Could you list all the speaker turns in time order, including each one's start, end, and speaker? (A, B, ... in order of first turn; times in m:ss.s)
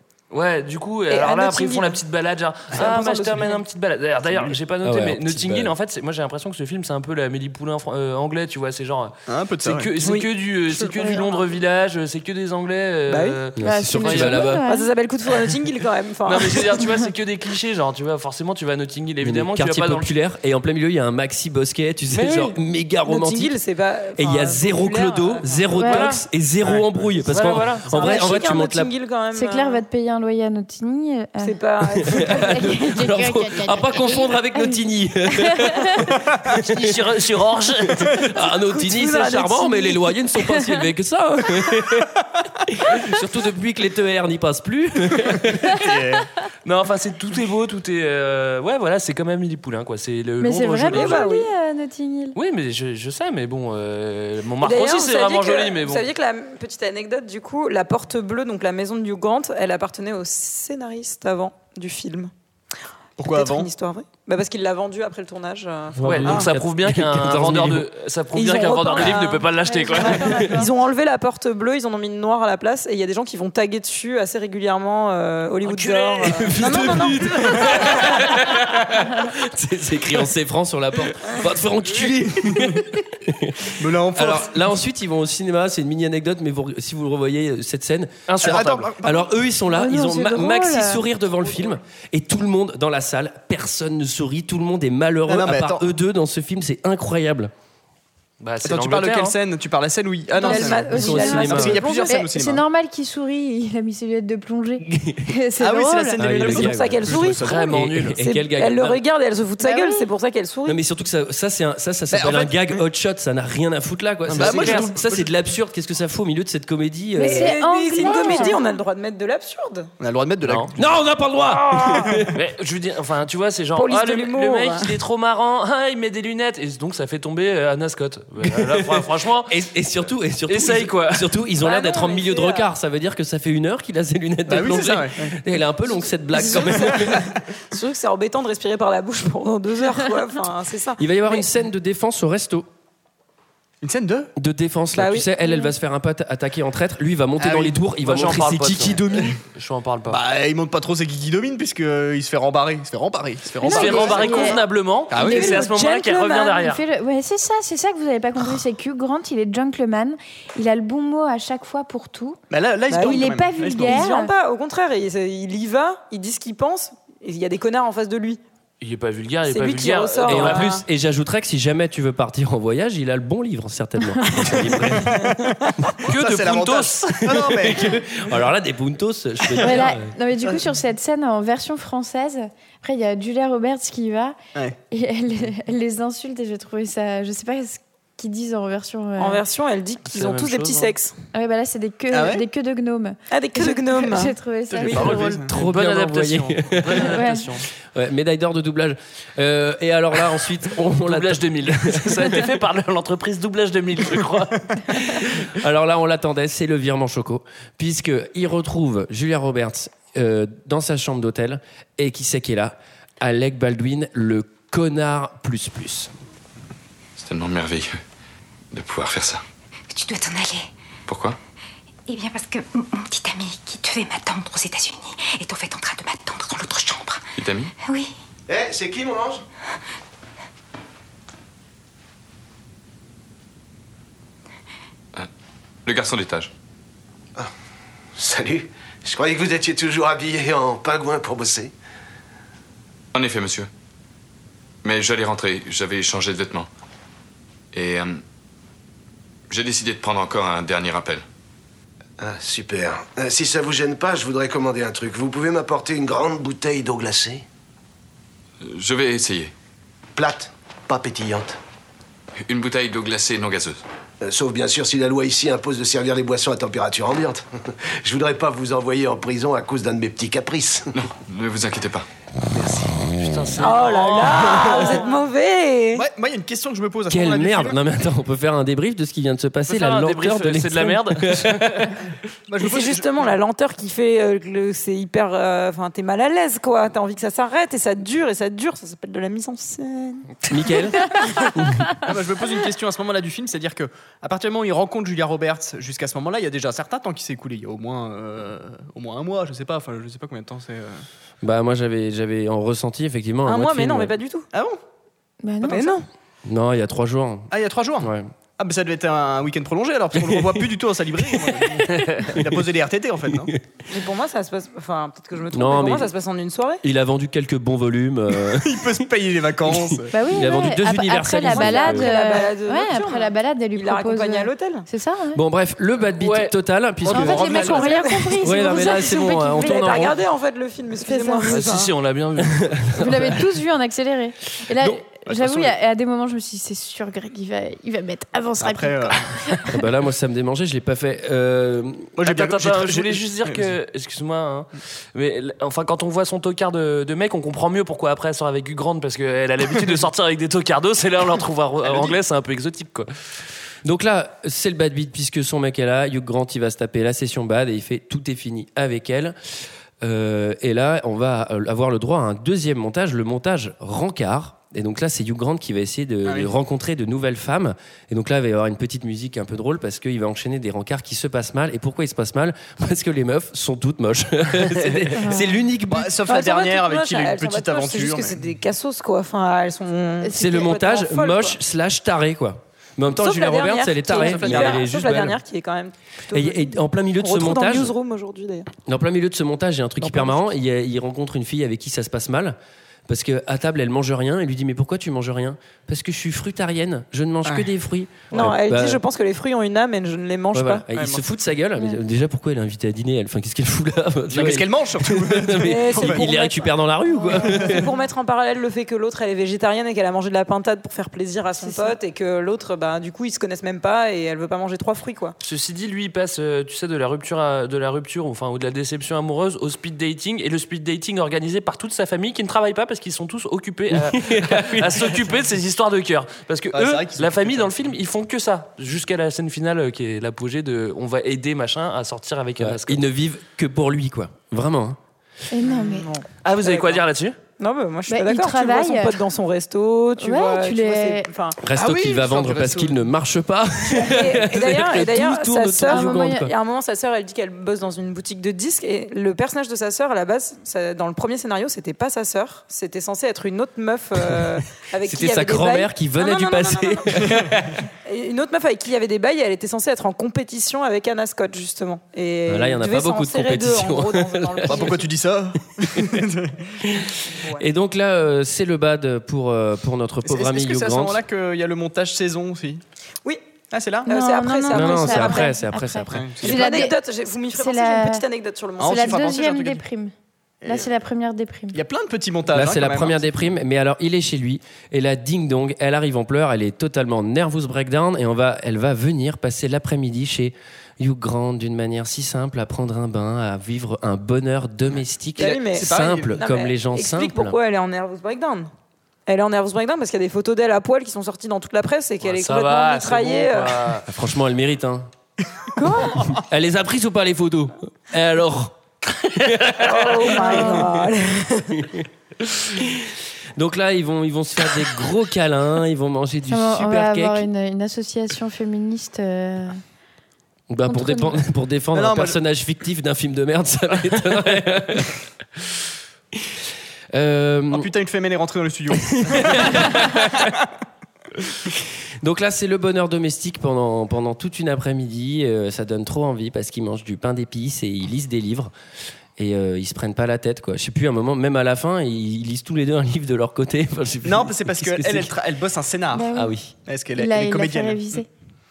0:00.3-0:14.5 A
0:01.1-0:02.0 B
0:02.7-0:03.6 B
0:04.8-0:05.7 C
0:09.3-0:09.9 D
0:10.0-0:11.4 B
0:13.1-0:13.4 B
0:13.6-0:14.6 C
0:13.6-0:14.9 E
0:14.7-0:16.8 B
0:16.2-0:20.1 A
0:19.2-0:23.6 C
0:23.1-0:25.7 B
0:24.2-0:28.9 C
0:25.8-0:26.1 E
0:25.8-0:26.2 A
0:27.3-0:28.0 A
0:28.0-0:29.8 B
0:29.3-0:34.8 E
0:31.4-0:33.0 B
0:32.1-0:37.0 C
0:35.3-0:36.1 E
0:36.6-0:38.1 A
0:37.8-0:45.8 C
0:38.7-0:40.0 B
0:45.7-0:46.3 D
0:46.6-0:51.3 A
0:50.4-0:52.4 E
0:50.9-0:51.5 B
0:52.4-0:56.1 A
0:54.6-1:02.3 B
1:03.2-1:03.7 D
1:03.3-1:06.5 B
1:06.0-1:07.9 C
1:06.0-1:10.5 A
1:08.4-1:18.2 B
1:09.7-1:10.7 E
1:15.7-1:16.4 A
1:16.2-1:37.5 C
1:18.3-1:18.7 A
1:22.5-1:22.8 D
1:23.8-1:24.7 D
1:28.3-1:28.9 A
1:28.4-1:29.3 D
1:29.7-1:31.0 E
1:35.3-1:35.8 D
1:38.4-1:39.4 A
1:38.6-1:42.6 D
1:40.4-1:42.2 B
1:40.4-1:46.3 E
1:40.9-1:41.9 C
1:44.8-1:45.3 C
1:45.6-1:47.9 D
1:46.2-1:49.0 C
1:46.4-1:47.4 B
1:47.4-1:48.2 A
1:48.2-1:50.8 B
1:49.6-1:50.0 E
1:50.7-1:57.6 C
1:52.1-1:52.8 D
1:54.3-1:54.9 A
1:54.3-1:55.3 D
1:57.2-1:58.6 E
1:57.2-1:59.9 B
2:00.0-2:00.8 D
2:00.4-2:00.7 A
2:00.8-2:02.4 C
2:02.4-2:09.5 A
2:03.8-2:05.0 B
2:08.4-2:17.3 C
2:10.5-2:11.4 A
2:11.6-2:12.7 B
2:14.5-2:15.4 D
2:16.2-2:21.4 B
2:21.0-2:22.7 C
2:23.8-2:24.3 D
2:24.4-2:29.4 C
2:24.9-2:25.3 B
2:27.4-2:27.8 D
2:28.0-2:30.2 A
2:30.1-2:34.6 D
2:33.6-2:34.6 E
2:33.6-2:36.8 A
2:33.9-2:34.6 B
2:35.1-2:35.6 D
2:35.2-2:36.6 B
2:35.2-2:35.6 E
2:36.6-2:42.4 E
2:42.5-2:44.0 D
2:42.9-2:43.3 B
2:43.0-2:44.3 E
2:43.8-2:48.4 B
2:48.8-2:50.8 A
2:49.5-2:50.8 B
2:50.3-2:55.4 C
2:54.8-2:58.0 D
2:56.0-2:57.5 A
2:57.3-3:00.1 C
2:59.6-3:04.4 E
3:04.9-3:09.4 E
3:09.2-3:11.2 B
3:10.1-3:10.9 A
3:11.3-3:15.4 E
3:12.1-3:12.4 D
3:13.3-3:14.3 B
3:14.7-3:15.5 D
3:14.9-3:17.3 C
3:15.5-3:17.7 A
3:17.0-3:17.5 E
3:17.9-3:22.4 C
3:21.0-3:24.8 A
3:25.0-3:36.1 C
3:37.2-3:38.0 F
3:38.7-3:39.4 F
3:39.9-3:40.7 G
3:41.1-3:41.4 F
3:42.1-3:47.2 G
3:47.4-3:47.7 F
3:47.8-3:48.1 G
3:48.5-3:49.4 H
3:55.9-3:56.5 F
3:58.2-4:01.7 H
4:03.1-4:03.7 F
4:04.8-4:06.7 F
4:07.7-4:08.2 F
4:09.5-4:11.2 F
4:12.2-4:17.4 H
4:18.6-4:19.5 F
4:20.2-4:21.6 H
4:22.5-4:23.8 F
4:24.2-4:30.9 H
4:31.0-4:32.1 F
4:32.5-4:33.0 D
4:33.2-4:35.0 A
4:33.6-4:36.1 B
4:36.0-4:37.8 D
4:37.1-4:41.9 C
4:39.7-4:42.0 A
4:42.5-4:43.3 D
4:42.6-4:50.3 B
4:50.5-4:52.0 C
4:52.0-5:01.0 D
5:01.4-5:04.2 C
5:03.5-5:04.5 B
5:04.5-5:04.8 D
5:05.4-5:06.0 E
5:05.6-5:06.0 B
5:06.4-5:08.3 C
5:07.5-5:13.5 D
5:10.2-5:12.7 C
5:13.3-5:13.6 C
5:13.9-5:16.8 B
5:15.5-5:16.1 C
5:16.8-5:19.0 C
5:18.4-5:20.2 D
5:19.6-5:22.1 C
5:20.1-5:25.4 E
5:21.4-5:24.9 B
5:25.4-5:27.8 C
5:26.2-5:26.6 A
5:27.1-5:28.0 D
5:27.1-5:30.1 E
5:27.5-5:31.9 B
5:28.4-5:30.2 C
5:31.0-5:31.6 E
5:31.5-5:33.0 A
5:32.7-5:33.4 C
5:33.0-5:39.8 E
5:35.2-5:35.7 D
5:38.6-5:39.6 D
5:39.7-5:42.2 C
5:42.2-5:43.8 D
5:42.2-5:53.1 A
5:51.8-5:52.2 D
5:53.8-5:59.4 C
6:00.0-6:16.1 C
6:15.2-6:15.6 E
6:15.9-6:18.4 D
6:16.3-6:21.6 B
6:20.3-6:25.4 C
6:20.4-6:20.6 E
6:23.1-6:28.7 B
6:24.1-6:24.8 D
6:26.3-6:28.0 C
6:28.8-6:39.0 C
6:30.0-6:30.4 B
6:38.3-6:40.9 B
6:40.5-6:47.9 C
6:41.0-6:41.2 D
6:44.3-6:46.3 D
6:45.6-6:55.4 B
6:51.6-6:52.0 E
6:55.4-7:13.0 A
7:03.9-7:05.3 C
7:06.7-7:07.7 D
7:12.6-7:15.0 C
7:15.5-7:16.1 E
7:15.6-7:17.0 B
7:16.4-7:17.4 A
7:17.6-7:21.6 B
7:18.1-7:19.3 E
7:20.2-7:21.3 E
7:21.6-7:26.5 C
7:21.8-7:23.1 D
7:24.0-7:37.4 B
7:25.9-7:26.5 E
7:35.0-7:37.8 C
7:38.0-7:45.1 B
7:42.5-7:45.0 C
7:44.7-7:46.6 D
7:46.0-7:46.2 C
7:46.8-7:51.2 C
7:47.3-7:47.6 B
7:50.2-7:52.8 D
7:53.7-7:54.1 D
7:54.0-7:55.6 B
7:54.1-7:57.0 E
7:54.7-7:56.4 C
7:56.1-7:56.8 D
7:56.4-7:59.3 B
7:57.5-7:58.2 E
7:58.8-7:59.8 D
7:58.8-8:00.1 E
8:00.6-8:01.8 E
8:01.7-8:03.3 D
8:02.5-8:17.6 C
8:15.4-8:18.7 B
8:15.4-8:16.4 D
8:19.3-8:23.9 B
8:22.2-8:24.1 A
8:24.1-8:25.1 C
8:25.8-8:26.1 E
8:26.1-8:28.8 C
8:29.4-8:30.9 C
8:29.8-8:31.8 B
8:30.4-8:30.8 E
8:31.8-8:37.5 C
8:36.5-8:39.8 E
8:40.7-8:45.2 C
8:40.9-8:41.4 E
8:41.9-8:42.4 D
8:47.1-8:47.9 C
8:47.7-8:50.6 D
8:48.9-8:50.6 C
8:51.8-8:58.7 C
8:59.4-9:05.3 C
9:04.2-9:06.3 D
9:06.1-9:06.5 E
9:06.3-9:06.7 C
9:06.8-9:08.2 D
9:07.2-9:08.3 E